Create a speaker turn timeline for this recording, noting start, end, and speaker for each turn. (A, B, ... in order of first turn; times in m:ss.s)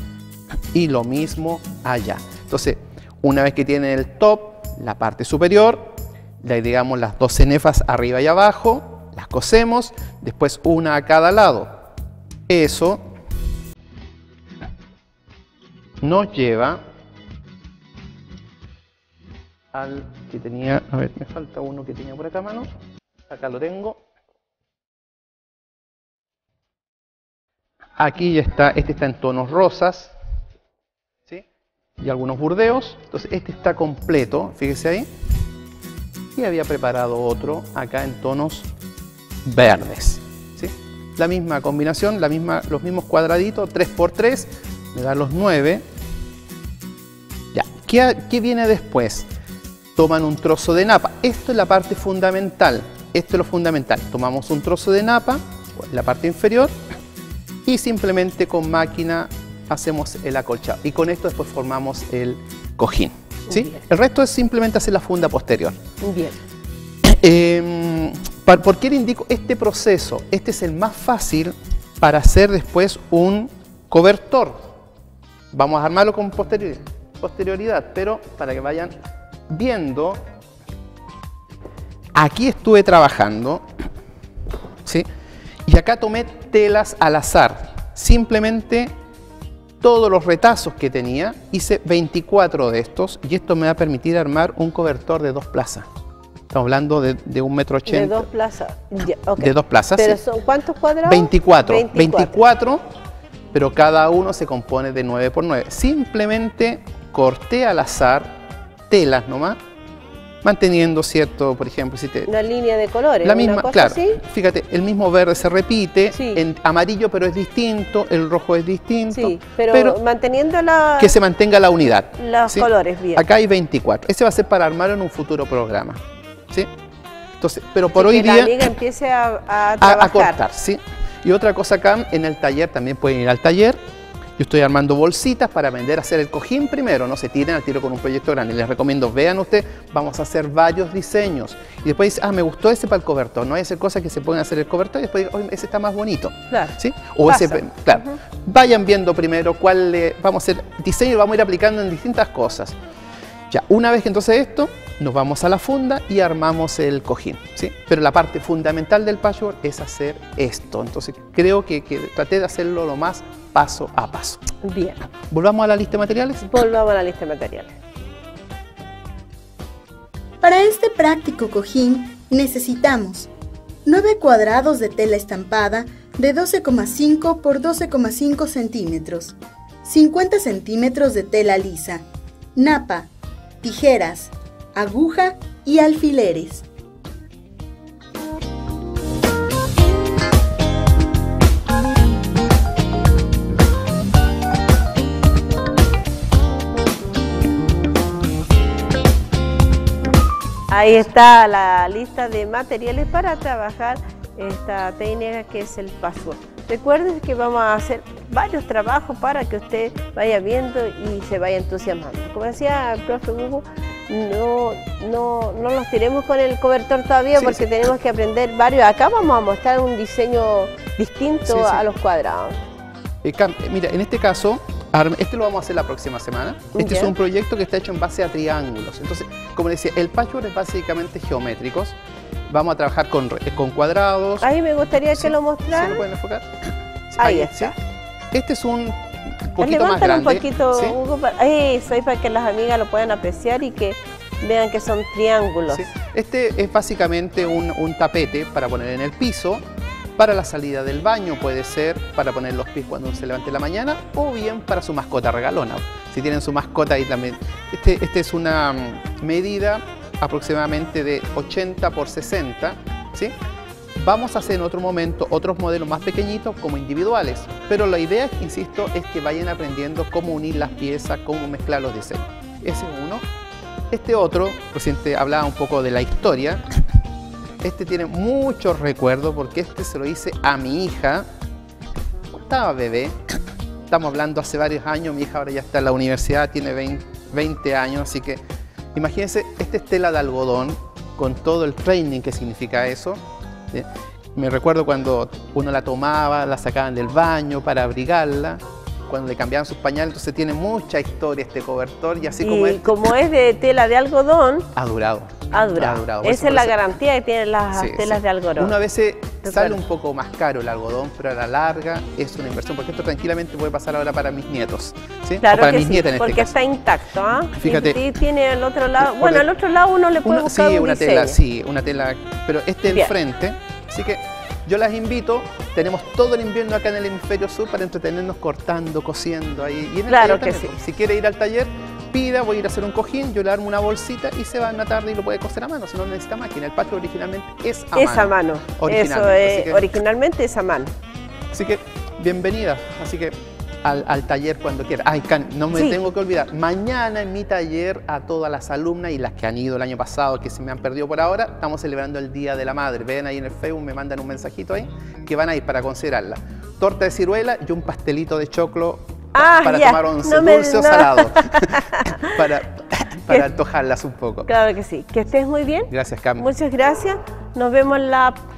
0:00.7-0:11.7 A
0:12.5-0:13.0 A
0:16.0-0:16.8 A
0:19.7-0:22.7 A
0:23.3-0:24.0 A
0:28.0-0:30.1 A
0:32.0-0:35.1 A
0:36.4-0:38.7 A
0:39.4-0:45.8 A
0:47.5-0:49.3 A
0:50.0-0:56.7 A
0:57.6-1:05.8 A
1:03.5-1:03.8 B
1:06.0-1:06.4 B
1:07.0-1:14.6 A
1:15.5-1:18.9 A
1:19.5-1:20.2 A
1:22.1-1:23.6 A
1:25.7-1:28.9 A
1:29.8-1:35.9 A
1:36.5-1:38.2 A
1:37.8-1:42.3 B
1:39.4-1:40.2 A
1:41.0-1:42.8 A
1:43.5-1:48.3 A
1:48.9-1:49.6 A
1:50.4-1:52.3 A
1:52.2-1:54.2 B
1:53.2-2:00.0 A
1:56.1-1:56.4 B
1:59.1-2:01.1 B
2:01.0-2:06.0 A
2:02.1-2:03.2 B
2:07.4-2:08.6 A
2:07.9-2:10.4 B
2:09.8-2:13.8 A
2:14.4-2:32.8 A
2:26.5-2:26.7 B
2:27.2-2:28.1 B
2:33.5-2:44.4 A
2:44.6-2:45.0 B
2:45.3-2:46.4 A
2:46.4-2:47.8 B
2:50.4-2:53.3 C
2:53.8-3:03.1 C
3:03.6-3:06.7 C
3:20.7-3:42.6 B
3:37.4-3:37.6 A
3:41.5-3:41.8 A
3:43.2-3:52.0 A
3:46.8-3:47.1 B
3:52.5-3:54.4 A
3:54.4-3:56.0 B
3:55.2-3:56.5 A
3:57.1-3:57.7 A
3:57.2-3:57.7 B
3:58.3-4:01.0 A
3:59.6-4:05.8 B
4:05.7-4:09.6 A
4:10.2-4:23.3 A
4:24.0-4:33.2 A
4:33.9-4:36.6 A
4:37.6-4:41.2 A
4:42.3-4:43.2 A
4:43.9-4:48.4 A
4:48.9-4:53.2 A
4:53.7-5:03.0 A
5:02.4-5:04.7 B
5:04.7-5:06.8 A
5:05.5-5:08.7 B
5:07.7-5:16.5 A
5:09.4-5:09.8 B
5:15.4-5:21.4 B
5:17.5-5:18.0 A
5:19.0-5:19.5 A
5:20.2-5:39.9 A
5:22.8-5:23.1 B
5:30.1-5:30.7 B
5:37.9-5:40.9 B
5:41.5-6:04.5 A
5:45.7-5:46.0 B
5:59.3-6:02.3 B
6:04.4-6:08.4 B
6:05.9-6:06.4 A